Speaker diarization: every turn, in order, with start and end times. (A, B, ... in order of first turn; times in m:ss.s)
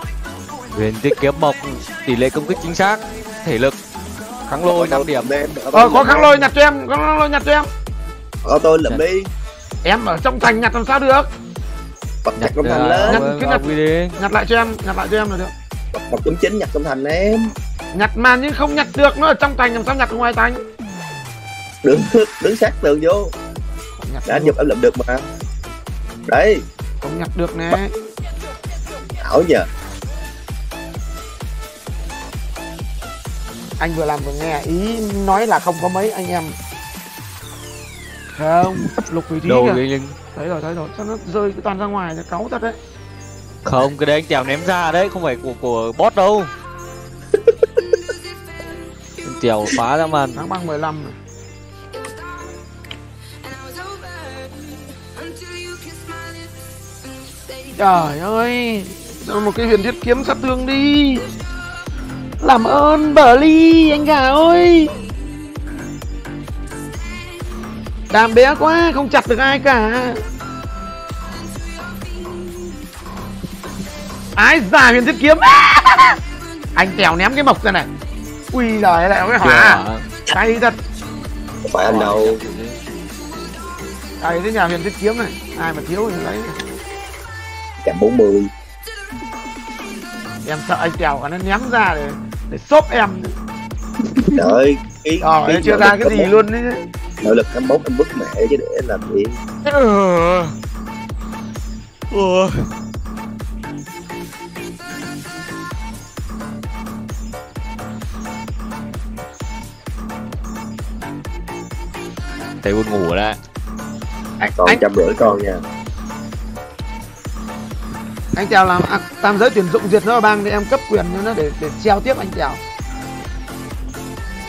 0:00.7-0:03.8 A
0:04.5-0:05.3 A
0:04.6-0:06.4 B
0:05.7-0:07.7 C
0:08.4-0:09.3 B
0:09.8-0:11.3 C
0:12.2-0:13.3 B
0:12.4-0:14.1 A
0:13.1-0:15.5 C
0:15.9-0:17.5 B
0:17.9-0:20.6 C
0:21.8-0:23.3 B
0:24.0-0:24.6 C
0:24.2-0:25.3 B
0:26.3-0:26.6 B
0:27.0-0:27.9 C
0:29.2-0:29.7 B
0:33.8-0:36.6 C
0:38.3-0:39.8 C
0:39.4-0:40.2 A
0:40.4-0:42.8 C
0:43.6-0:46.5 A
0:49.2-0:50.4 A
0:50.4-0:51.2 C
0:57.8-1:01.3 C
1:02.4-1:04.9 C
1:08.1-1:10.2 C
1:14.4-1:16.2 C
1:16.8-1:17.9 C
1:18.5-1:20.8 C
1:19.4-1:20.0 A
1:21.6-1:22.4 B
1:21.9-1:22.8 A
1:24.2-1:26.6 C
1:27.8-1:28.5 B
1:30.4-1:33.4 C
1:34.4-1:36.3 B
1:35.2-1:36.8 C
1:37.2-1:39.4 B
1:39.6-1:40.5 A
1:42.1-1:42.7 A
1:52.6-1:53.4 A
1:54.4-1:54.9 C
1:54.6-1:55.6 B
1:58.4-2:02.6 C